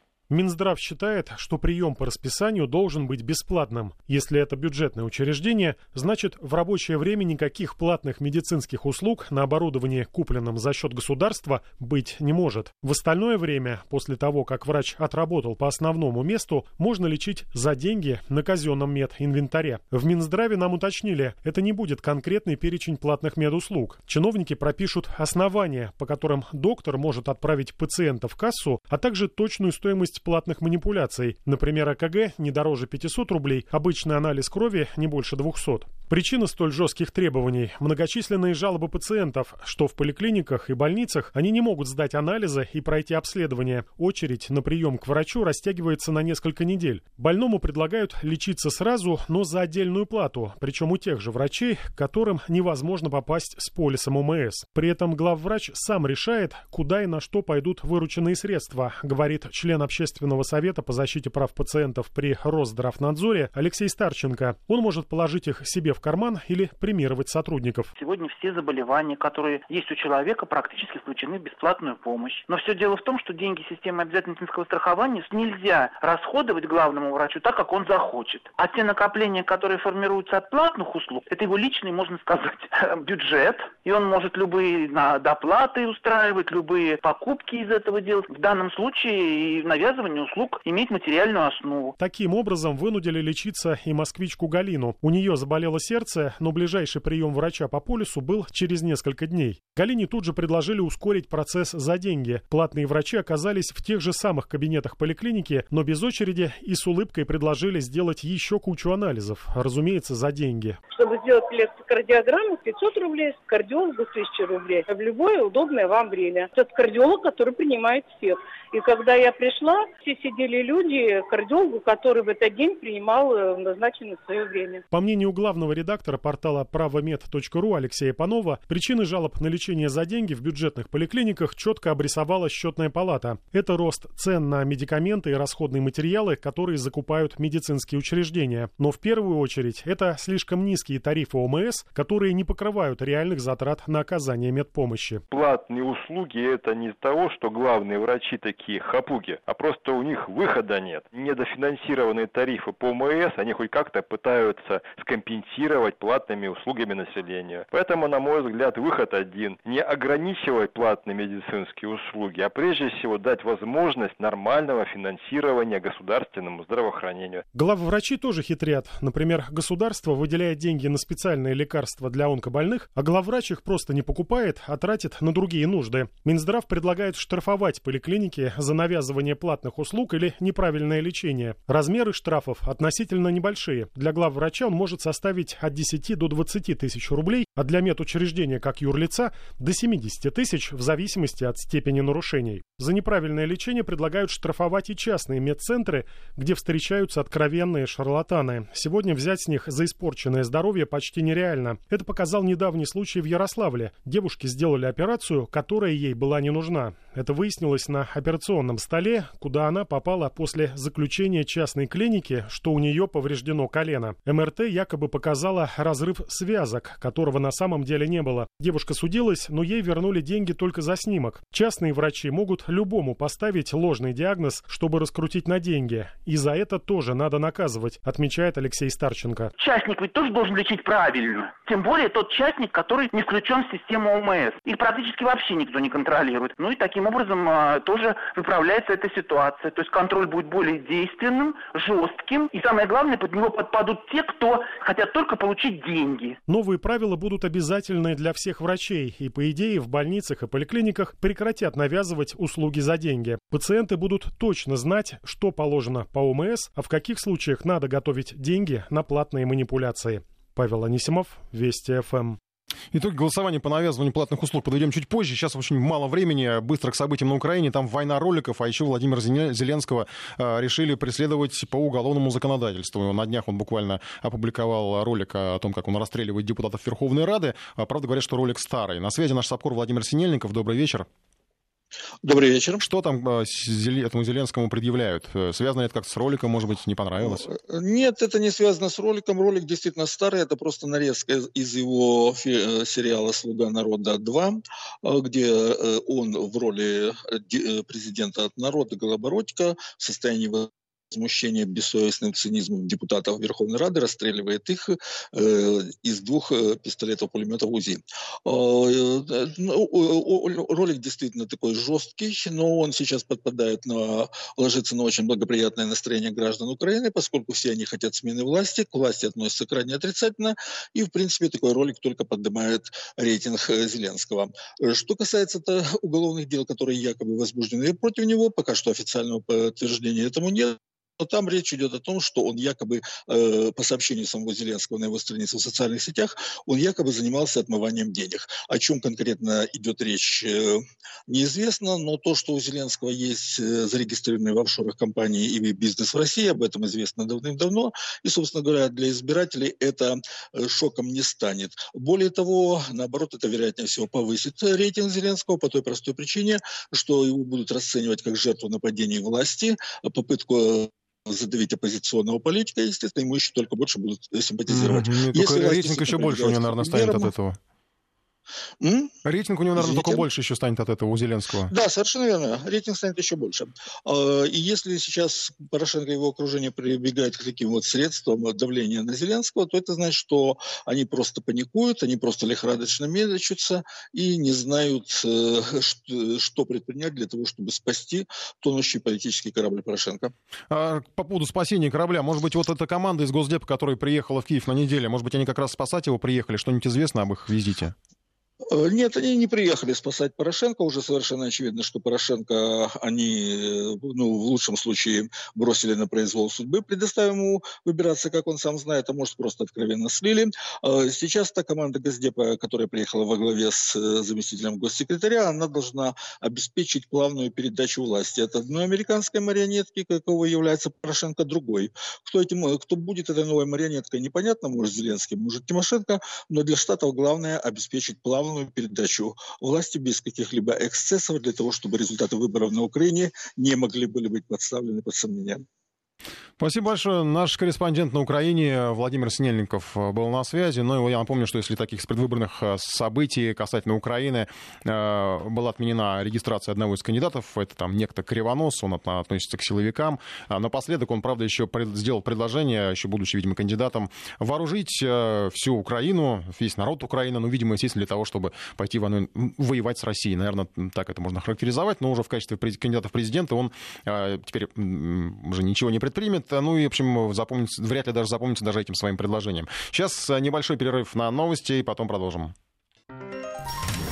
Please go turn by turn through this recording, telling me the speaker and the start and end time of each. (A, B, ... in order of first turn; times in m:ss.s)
0:00.3-1:07.9 A
1:08.0-1:31.9 B
1:32.0-1:50.8 A
1:50.9-2:04.8 C
2:04.9-2:25.2 A
2:25.3-2:47.4 D
2:47.5-3:49.5 A
3:49.6-4:06.4 B
4:06.5-4:22.4 A
4:22.9-4:41.1 E
4:42.2-4:42.8 F
4:42.8-4:47.5 E
4:47.2-6:07.3 F
6:04.7-6:07.6 E
6:08.8-6:09.1 F
6:09.2-6:11.7 E
6:09.8-6:10.2 F
6:11.7-6:30.3 F
6:30.7-6:37.9 E
6:38.7-7:15.6 F
7:16.6-7:52.5 E